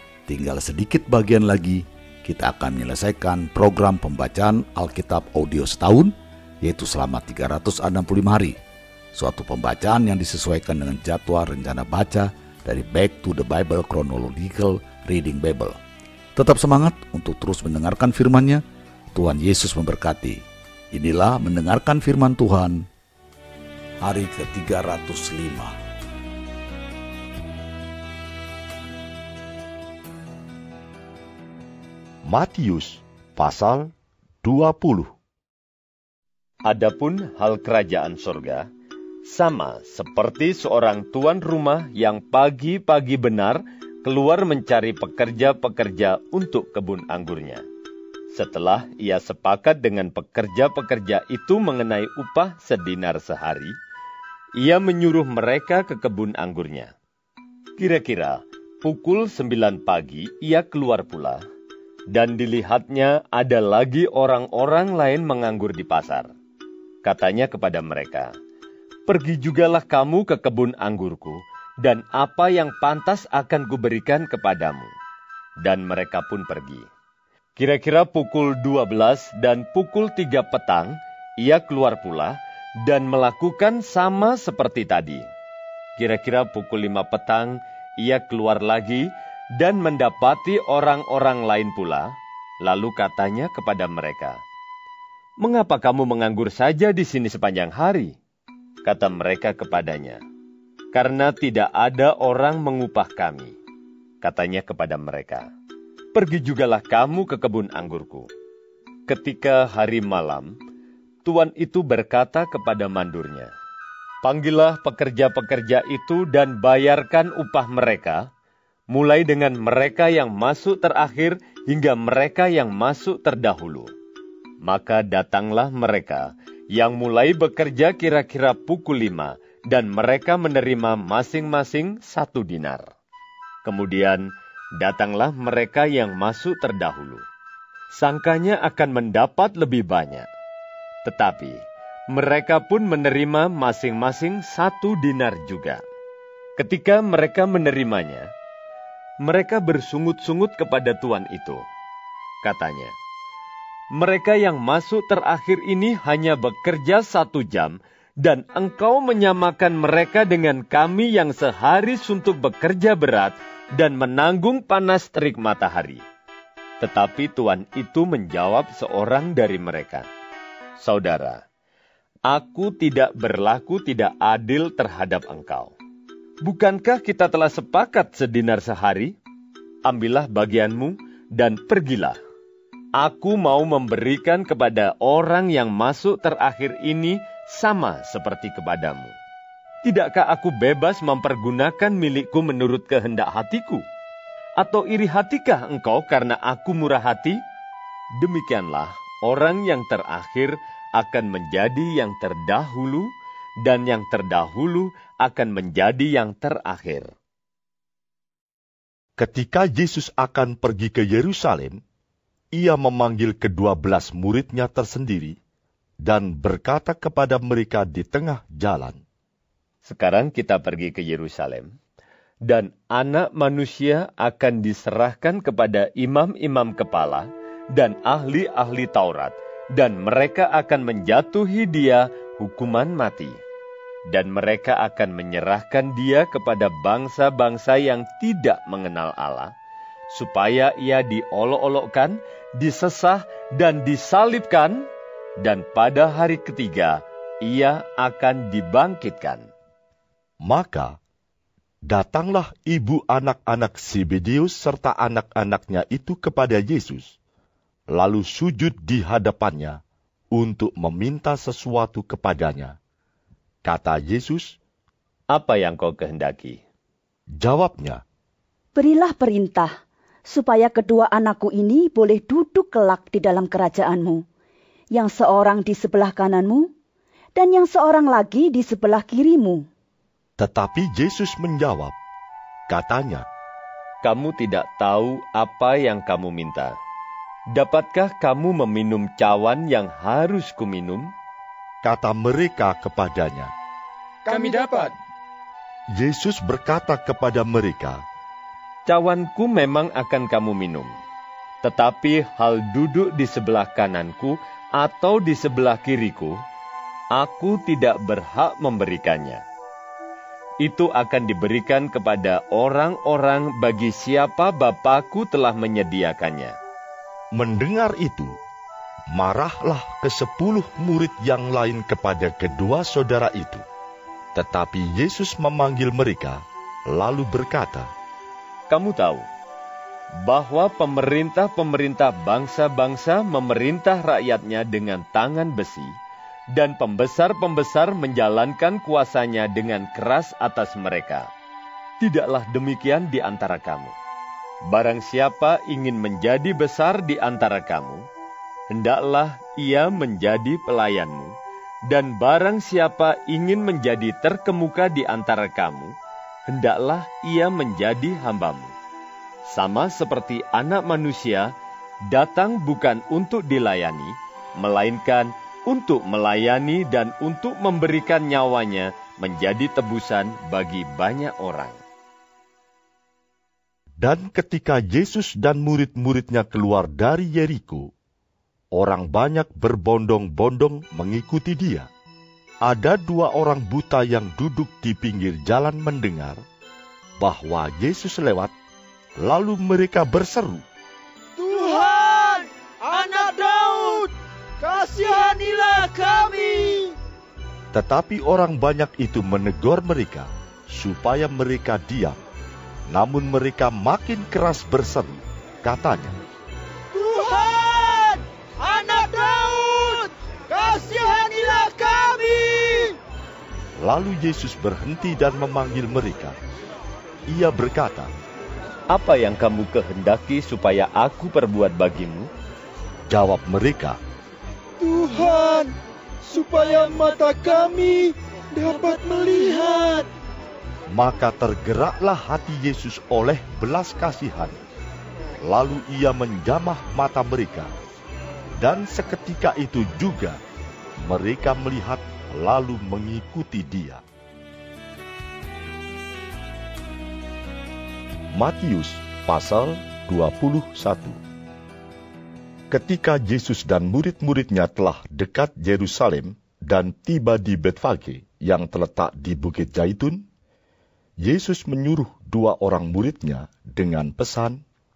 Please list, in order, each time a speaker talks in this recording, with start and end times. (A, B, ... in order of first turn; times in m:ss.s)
0:00.3-0:08.6 A
0:09.2-0:15.8 A
0:16.4-0:18.6 A
0:19.2-0:20.4 A
0:20.9-0:22.8 A
0:24.0-0:25.8 A
0:32.3-0:33.9 B
0:34.4-0:35.1 B
0:36.7-0:38.7 C
0:39.3-0:47.6 C
0:48.3-0:53.7 C
0:54.6-0:56.9 C
0:57.8-1:01.4 C
1:02.1-1:06.3 C
1:07.0-1:08.3 C
1:09.1-1:14.9 C
1:15.6-1:16.9 C
1:17.6-1:25.3 C
1:26.0-1:32.1 C
1:32.6-1:34.4 C
1:35.4-1:38.2 C
1:38.8-1:40.2 C
1:40.9-1:43.6 C
1:44.2-1:45.5 C
1:46.1-1:48.3 C
1:49.1-1:50.5 C
1:51.2-1:53.5 C
1:54.2-1:58.3 C
1:58.9-2:03.9 C
2:04.6-2:12.8 C
2:13.6-2:14.3 C
2:14.8-2:17.2 C
2:17.9-2:20.3 C
2:21.0-2:21.6 C
2:22.1-2:25.8 C
2:26.6-2:28.3 C
2:29.2-2:31.6 C
2:32.4-2:32.9 C
2:33.9-2:46.0 C
2:46.8-2:50.1 C
2:50.8-2:51.4 C
2:52.3-2:55.7 C
2:56.4-2:59.2 C
2:59.8-3:02.2 C
3:03.0-3:09.1 C
3:09.8-3:13.8 C
3:14.6-3:17.4 C
3:18.2-3:23.1 C
3:23.6-3:27.1 C
3:29.2-3:31.8 B
3:32.5-3:35.4 B
3:36.0-3:39.0 B
3:39.8-3:41.7 C
3:42.5-3:53.4 C
3:54.1-3:59.5 C
4:00.1-4:04.8 C
4:05.4-4:09.4 C
4:10.4-4:11.0 B
4:11.9-4:17.2 B
4:17.9-4:19.8 B
4:20.3-4:22.8 B
4:23.6-4:24.6 B
4:25.3-4:26.6 C
4:27.4-4:28.0 B
4:28.8-4:29.7 D
4:30.3-4:34.2 D
4:34.9-4:36.7 D
4:37.4-4:39.6 D
4:40.4-4:42.0 B
4:42.7-4:43.3 B
4:44.0-4:46.8 C
4:47.5-4:51.1 C
4:51.8-4:53.5 B
4:54.2-4:54.9 E
4:55.9-4:58.0 B
4:58.9-5:00.9 C
5:01.6-5:06.4 C
5:07.2-5:09.4 C
5:10.6-5:16.6 C
5:17.4-5:18.3 B
5:19.2-5:23.6 B
5:24.4-5:27.9 B
5:28.7-5:29.3 C
5:30.2-5:35.9 C
5:36.5-5:41.3 C
5:42.0-5:43.9 C
5:44.7-5:48.0 C
5:48.7-5:51.3 C
5:51.9-5:55.9 C
5:56.5-5:58.7 C
5:59.5-6:01.5 C
6:02.1-6:11.8 C
6:14.0-6:17.9 B
6:18.7-6:21.9 B
6:22.6-6:26.4 B
6:27.2-6:28.5 B
6:29.2-6:30.6 B
6:31.4-6:37.0 E
6:37.7-6:42.2 B
6:42.9-6:46.2 B
6:46.9-6:53.0 E
6:53.8-6:56.4 B
6:57.3-6:58.1 B
6:58.9-7:02.3 C
7:03.1-7:04.0 B
7:04.8-7:10.1 E
7:10.9-7:14.6 B
7:15.4-7:17.7 B
7:18.6-7:20.4 B
7:21.0-7:24.0 B
7:28.3-7:31.2 B
7:32.7-7:40.2 B
7:41.2-7:44.6 B